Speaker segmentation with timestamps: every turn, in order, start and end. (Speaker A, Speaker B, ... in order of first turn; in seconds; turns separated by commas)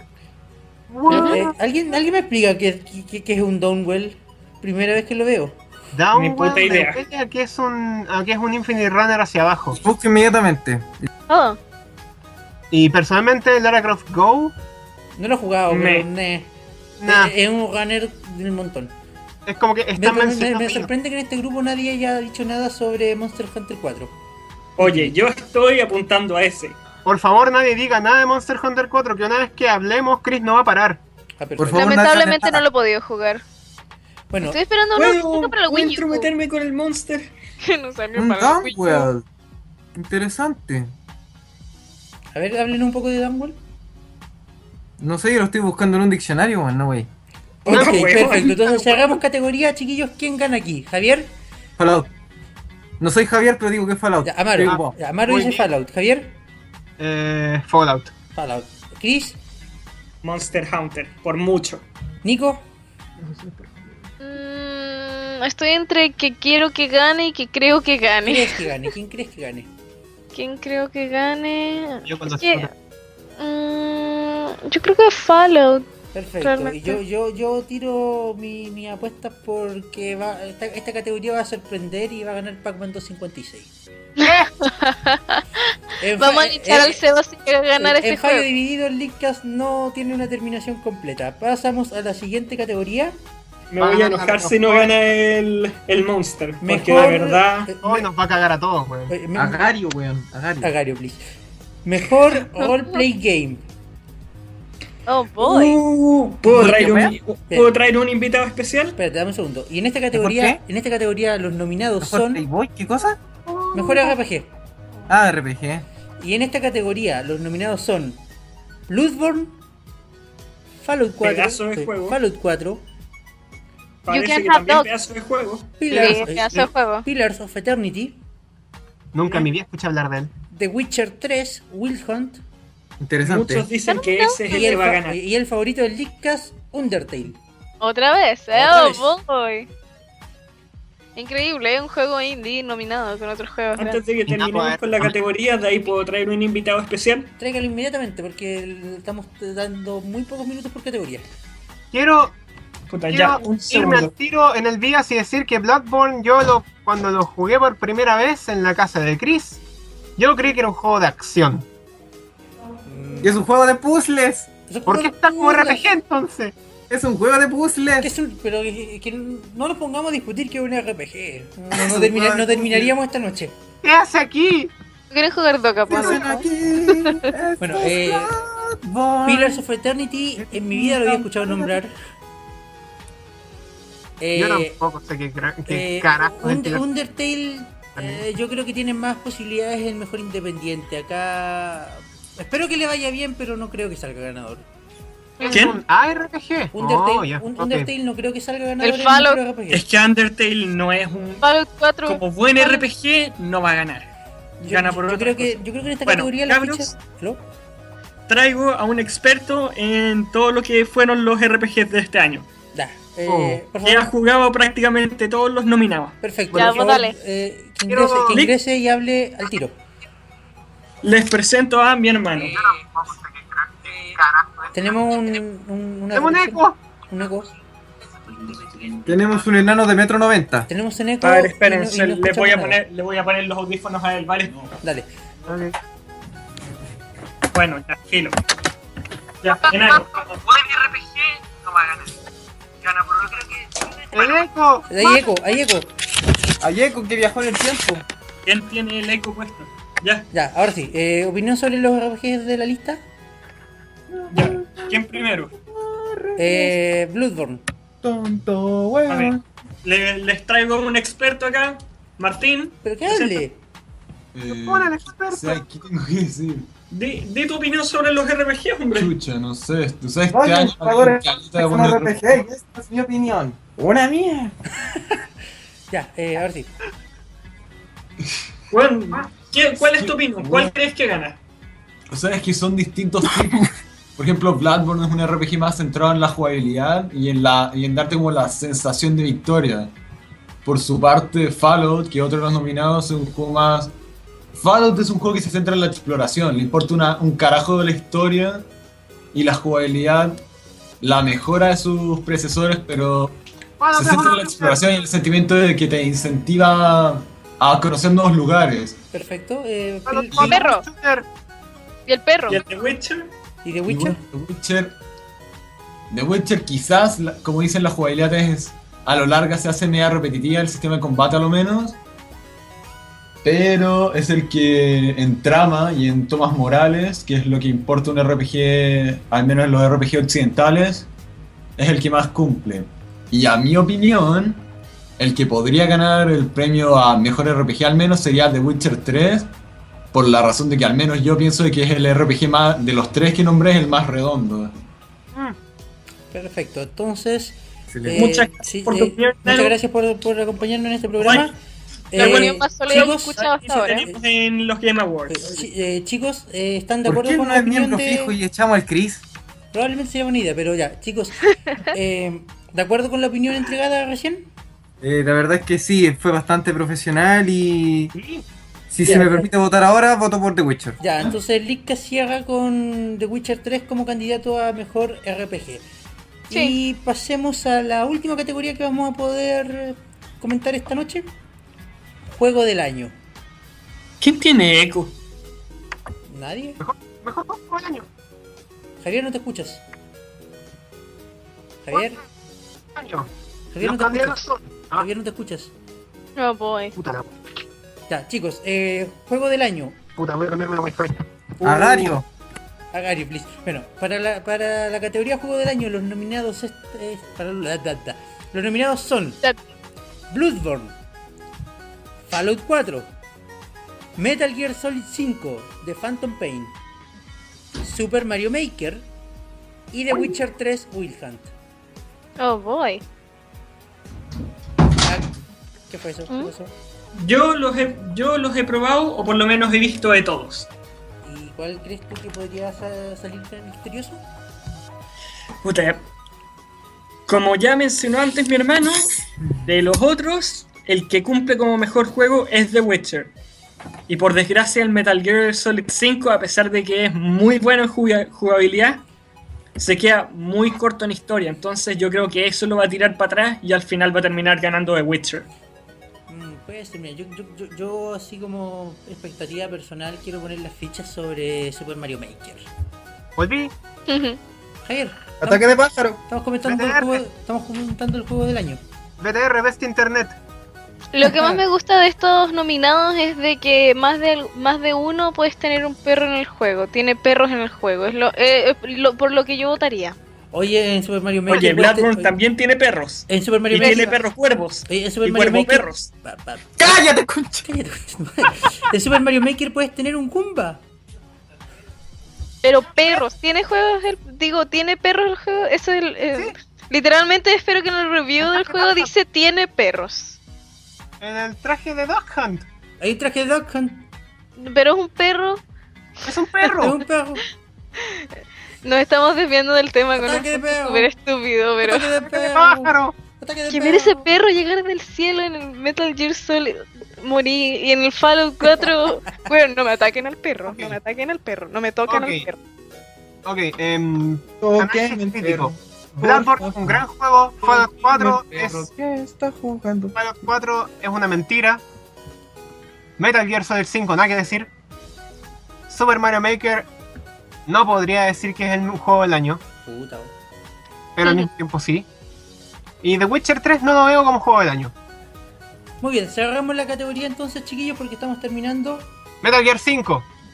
Speaker A: 0.9-1.5, Speaker B: 1.1-5.6, Speaker C: 1.1-1.4, Speaker A: 5.9-9.8, Speaker D: 6.1-7.0, Speaker E: 9.8-11.1, Speaker C: 11.3-11.6, Speaker A: 12.7-14.5, Speaker B: 15.2-16.5, Speaker D: 15.7-16.1, Speaker A: 17.0-17.3, Speaker B: 17.0-18.9, Speaker A: 19.4-20.9, Speaker B: 20.0-24.1, Speaker D: 24.8-26.8, Speaker B: 24.8-25.1, Speaker A: 27.1-31.0, Speaker B: 31.4-32.0, Speaker E: 31.6-32.6, Speaker C: 31.7-33.4, Speaker B: 34.3-34.6, Speaker C: 34.4-36.3, Speaker D: 35.0-37.3, Speaker C: 37.6-39.1, Speaker E: 38.1-39.2, Speaker E: 39.9-40.9, Speaker B: 42.3-43.6, Speaker E: 45.0-47.1, Speaker D: 47.6-48.8, Speaker B: 47.6-51.3, Speaker A: 47.7-48.4, Speaker E: 51.8-52.1, Speaker E: 53.0-54.9, Speaker B: 54.2-56.4, Speaker A: 54.6-55.7, Speaker A: 57.0-58.1, Speaker B: 58.3-59.4, Speaker D: 60.2-61.8, Speaker B: 62.2-62.6, Speaker C: 64.2-68.6, Speaker B: 68.2-69.7, Speaker C: 70.3-72.7, Speaker A: 72.0-72.7, Speaker C: 73.4-77.0, Speaker B: 76.1-83.7, Speaker C: 84.2-88.5, Speaker A: 84.2-84.5, Speaker B: 86.0-87.0, Speaker B: 87.8-93.2, Speaker D: 93.7-97.7, Speaker A: 93.8-94.9, Speaker B: 96.6-98.1, Speaker A: 97.8-99.1, Speaker B: 99.1-99.7, Speaker E: 99.3-100.7, Speaker B: 100.6-101.2, Speaker B: 101.8-103.6, Speaker C: 102.6-103.0, Speaker C: 105.1-105.8, Speaker D: 105.4-109.0, Speaker E: 106.5-107.1, Speaker B: 106.5-106.9, Speaker B: 109.0-112.4, Speaker E: 110.1-110.6, Speaker E: 112.0-113.2, Speaker A: 113.5-114.0, Speaker B: 113.7-114.5, Speaker E: 115.1-115.8, Speaker B: 116.2-118.2, Speaker B: 118.9-119.6, Speaker B: 120.8-122.8, Speaker D: 121.2-122.2, Speaker D: 124.0-125.8, Speaker C: 124.1-124.9, Speaker B: 125.8-128.2, Speaker C: 125.9-127.0, Speaker A: 125.9-126.2, Speaker A: 129.1-130.3, Speaker B: 130.5-132.4, Speaker E: 133.0-133.7, Speaker D: 133.2-135.2, Speaker C: 133.8-134.8, Speaker B: 134.5-137.4, Speaker C: 137.8-139.7, Speaker B: 138.5-139.1, Speaker C: 141.2-144.0, Speaker D: 143.8-147.3, Speaker A: 144.2-145.1, Speaker B: 147.4-151.2, Speaker A: 151.9-152.3, Speaker D: 152.9-154.1, Speaker A: 153.1-159.6, Speaker A: 160.2-161.6, Speaker B: 162.8-163.4, Speaker E: 163.2-164.5, Speaker B: 164.7-165.8, Speaker A: 164.9-166.5, Speaker E: 166.9-168.1, Speaker B: 168.0-173.5, Speaker E: 171.7-172.9, Speaker A: 173.8-174.7, Speaker C: 175.1-177.3, Speaker E: 175.9-179.6, Speaker B: 177.6-178.3, Speaker B: 179.2-181.9, Speaker E: 180.4-181.8, Speaker B: 184.2-184.8, Speaker A: 184.3-186.8, Speaker B: 185.7-194.7, Speaker A: 187.9-188.2, Speaker C: 195.4-195.7, Speaker A: 195.4-197.9, Speaker D: 195.5-195.8, Speaker B: 196.7-199.8, Speaker C: 198.8-199.4, Speaker D: 199.7-201.4, Speaker C: 201.4-202.8, Speaker D: 202.1-204.1, Speaker B: 204.6-207.4, Speaker D: 204.6-206.9, Speaker D: 208.3-212.4, Speaker B: 212.7-214.1, Speaker A: 213.3-213.6, Speaker D: 213.8-216.2, Speaker B: 216.2-219.7, Speaker C: 216.5-217.2, Speaker A: 217.9-218.4, Speaker D: 221.0-222.6, Speaker A: 222.5-224.7, Speaker B: 224.7-227.5, Speaker A: 226.1-226.8, Speaker E: 229.0-230.7, Speaker B: 230.7-232.8, Speaker D: 231.2-234.7, Speaker B: 234.8-235.1, Speaker A: 235.5-235.7, Speaker D: 237.5-238.4, Speaker D: 239.4-242.1, Speaker D: 242.8-243.7, Speaker A: 244.1-244.9, Speaker B: 244.9-245.9, Speaker E: 246.6-248.0, Speaker D: 248.4-250.3, Speaker B: 250.3-253.0, Speaker E: 254.1-256.7, Speaker D: 254.3-255.5, Speaker B: 256.4-257.6, Speaker E: 258.0-259.4, Speaker D: 259.1-263.4, Speaker B: 262.8-263.6, Speaker F: 264.3-266.7, Speaker A: 264.5-265.6, Speaker D: 266.9-269.1, Speaker F: 268.9-272.4, Speaker E: 270.3-274.5, Speaker B: 274.8-275.2, Speaker B: 275.9-276.7, Speaker D: 278.7-281.4, Speaker F: 279.9-280.6, Speaker F: 282.1-289.9, Speaker F: 290.6-293.9, Speaker F: 294.5-298.7, Speaker F: 299.3-300.4, Speaker F: 301.0-303.4, Speaker A: 303.8-304.8, Speaker F: 303.9-309.0, Speaker B: 309.1-310.6, Speaker A: 310.1-311.2, Speaker C: 310.3-310.8, Speaker C: 312.1-312.6, Speaker D: 312.5-313.3, Speaker B: 313.6-314.2, Speaker F: 313.9-314.9, Speaker F: 316.1-322.0, Speaker F: 323.4-331.1, Speaker F: 331.8-334.6, Speaker F: 335.2-339.5, Speaker F: 340.1-344.7, Speaker B: 346.3-351.5, Speaker E: 347.9-348.2, Speaker D: 348.1-349.8, Speaker D: 351.2-351.5, Speaker B: 352.1-353.4, Speaker D: 352.1-355.6, Speaker C: 352.1-354.1, Speaker B: 355.3-358.3, Speaker E: 357.0-359.2, Speaker B: 359.7-364.5, Speaker E: 365.0-368.1, Speaker A: 368.1-368.4, Speaker E: 368.9-371.0, Speaker B: 369.0-369.5, Speaker B: 371.0-375.9, Speaker B: 376.5-381.3, Speaker B: 382.3-383.1, Speaker D: 384.2-385.1, Speaker B: 386.3-386.8, Speaker A: 386.8-388.1, Speaker B: 389.0-389.8, Speaker B: 391.8-392.2, Speaker A: 392.9-393.3, Speaker B: 393.7-394.4, Speaker A: 393.8-395.1, Speaker B: 394.9-395.7, Speaker C: 396.4-396.9, Speaker A: 396.9-397.3, Speaker B: 398.1-400.0, Speaker A: 400.2-401.2, Speaker E: 401.6-402.2, Speaker D: 401.6-402.1, Speaker B: 401.6-402.1, Speaker B: 402.9-409.4, Speaker B: 410.3-410.9, Speaker B: 412.3-413.1, Speaker B: 414.1-416.8, Speaker B: 417.8-419.1, Speaker B: 419.9-421.5, Speaker C: 422.4-423.0, Speaker B: 425.0-425.3, Speaker B: 425.9-426.7, Speaker D: 427.1-430.7, Speaker B: 431.2-434.2, Speaker D: 435.6-436.0, Speaker D: 437.3-443.3, Speaker D: 444.1-449.0, Speaker D: 449.8-455.5, Speaker B: 456.3-462.7, Speaker A: 463.4-463.7, Speaker C: 464.1-464.4, Speaker B: 464.8-465.6, Speaker E: 465.4-466.2, Speaker B: 466.2-468.8, Speaker A: 466.6-467.2, Speaker A: 469.2-470.4, Speaker C: 471.1-480.2, Speaker B: 471.2-471.6, Speaker B: 480.5-482.4, Speaker D: 481.5-486.1, Speaker B: 483.3-484.2, Speaker C: 483.8-484.0, Speaker B: 484.9-486.9, Speaker E: 486.8-487.7, Speaker B: 487.6-490.8, Speaker C: 492.6-500.4, Speaker A: 498.5-499.1, Speaker A: 501.2-502.6, Speaker B: 503.0-504.1, Speaker C: 504.6-505.6, Speaker A: 506.2-507.0, Speaker B: 506.7-507.4, Speaker C: 508.0-508.3, Speaker C: 508.8-512.1, Speaker B: 510.2-511.1, Speaker B: 511.8-514.3, Speaker A: 512.2-513.1, Speaker C: 513.7-522.6, Speaker A: 520.6-521.0, Speaker A: 522.1-522.5, Speaker A: 523.4-528.9, Speaker E: 524.6-527.0, Speaker E: 527.6-530.1, Speaker A: 530.1-531.8, Speaker A: 533.2-534.7, Speaker A: 535.9-536.9, Speaker A: 537.7-539.6, Speaker B: 539.8-540.3, Speaker A: 541.2-542.0, Speaker A: 543.0-544.9, Speaker B: 546.0-549.1, Speaker A: 549.4-550.3